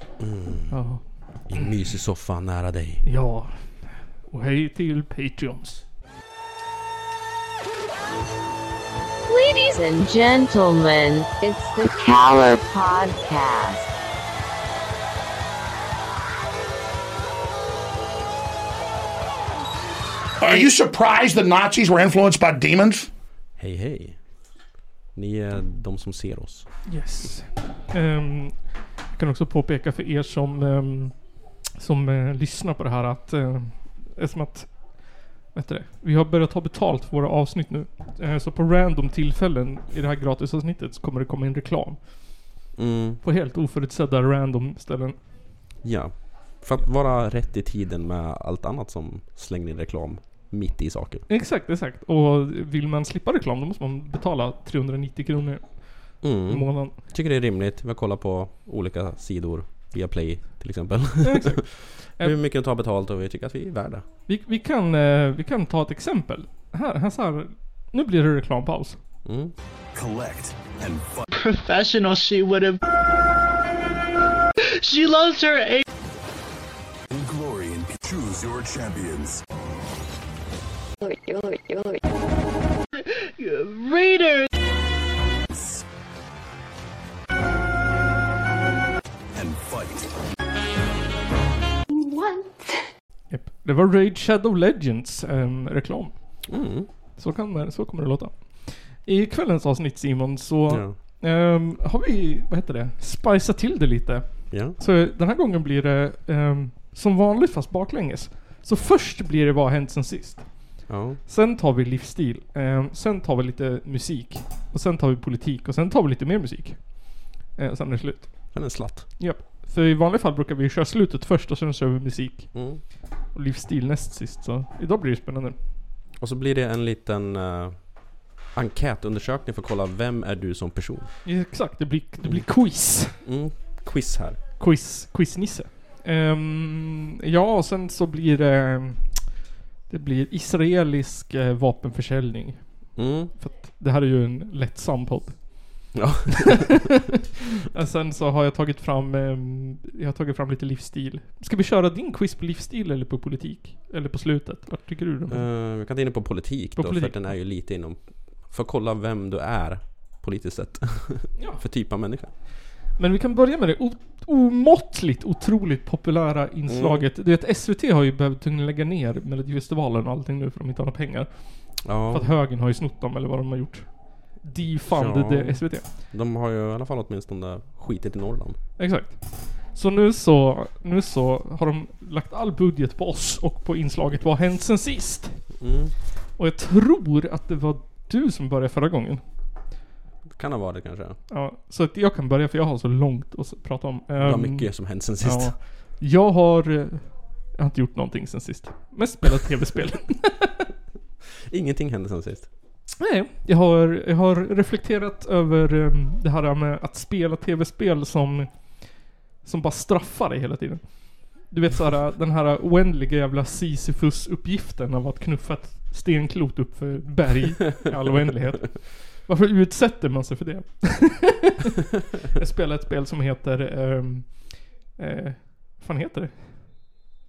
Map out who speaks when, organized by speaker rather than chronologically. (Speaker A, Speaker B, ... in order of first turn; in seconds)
Speaker A: 0.2-0.8, 1.5-3.0, 23.6-24.2, 25.1-26.7, 42.8-43.2, 45.8-51.2, 56.2-64.0, 69.2-69.5, 96.5-96.9, 100.7-101.0, 104.5-104.8, 110.9-111.2, 118.5-119.1, 122.5-122.8, 126.2-131.1, 133.2-134.4, 142.9-143.3, 145.9-146.8, 155.3-162.3, 166.7-167.1, 171.8-172.3, 174.9-178.6, 185.6-185.9, 190.3-191.2, 194.2-195.6, 201.5-202.5
Speaker B: 0.7-1.0, 3.0-5.8, 26.9-31.1, 31.8-34.9, 35.5-42.0, 43.2-45.2, 51.3-57.0, 61.2-62.3, 64.3-69.0, 93.3-96.5, 97.2-125.6, 131.2-133.2, 134.6-155.4, 156.8-157.3, 161.3-161.6, 163.0-173.9, 174.4-175.8, 178.8-185.4, 186.4-189.2, 191.3-200.7, 203.0-208.5, 209.4-226.5
Speaker C: 9.3-13.9
Speaker D: 20.4-23.1
Speaker E: 69.9-71.3, 77.1-79.4, 85.5-85.8, 89.3-90.1
Speaker F: 71.3-72.8, 74.8-75.8, 81.0-82.0, 83.0-84.5